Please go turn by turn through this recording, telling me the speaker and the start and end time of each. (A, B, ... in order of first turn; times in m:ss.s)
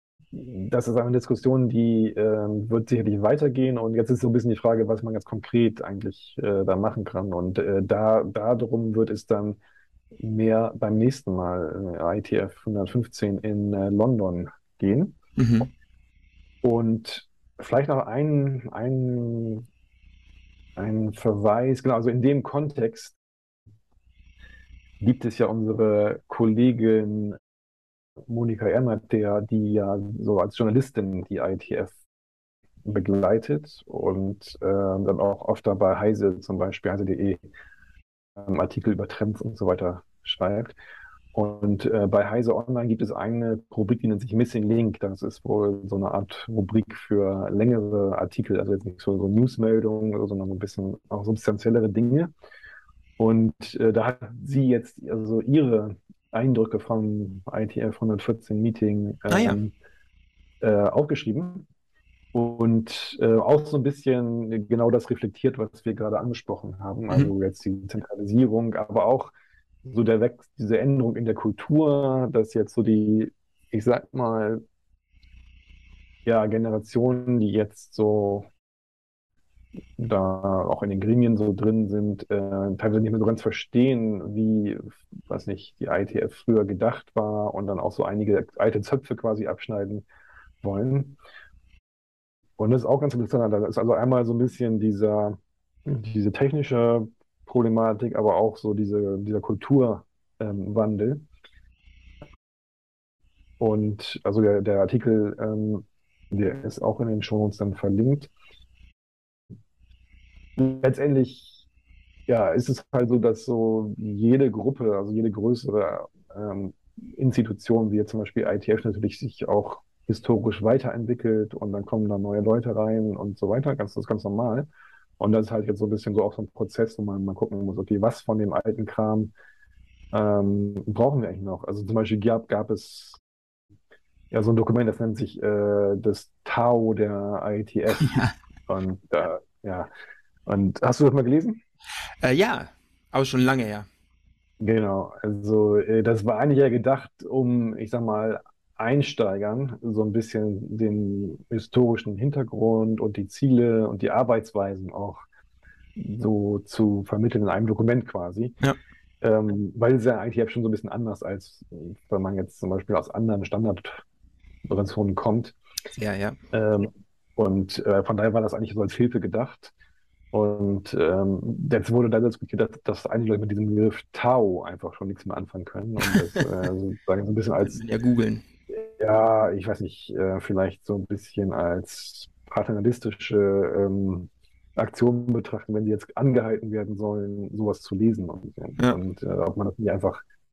0:00.3-0:09.6 A
0:10.2-0:15.2 A
0:15.4-0:15.7 B
0:16.6-0:19.6 A
0:20.8-0:23.2 A
0:25.0-0:27.4 A
0:28.3-0:32.0 A
0:32.8-0:37.4 A
0:38.4-0:40.7 A
0:41.3-0:52.3 A
0:53.2-0:59.7 A
0:59.3-0:59.6 B
1:00.6-1:01.7 A
1:02.3-1:14.6 A
1:16.2-1:18.5 A
1:20.0-1:30.0 A
1:30.6-1:31.2 A
1:32.6-1:41.2 A
1:43.6-1:48.3 A
1:50.6-1:51.6 A
1:52.3-2:04.7 A
2:05.2-2:09.3 A
2:10.1-2:13.2 A
2:14.3-2:18.1 A
2:17.9-2:18.3 B
2:18.7-2:19.9 A
2:20.4-2:21.6 A
2:22.2-2:23.9 B
2:24.6-2:35.2 A
2:36.0-2:38.6 A
2:39.2-2:44.0 A
2:44.6-2:45.6 A
2:46.0-2:46.4 B
2:46.5-2:49.7 A
2:50.3-2:57.8 A
2:56.0-2:56.4 B
2:57.6-2:58.4 B
2:58.7-3:10.2 A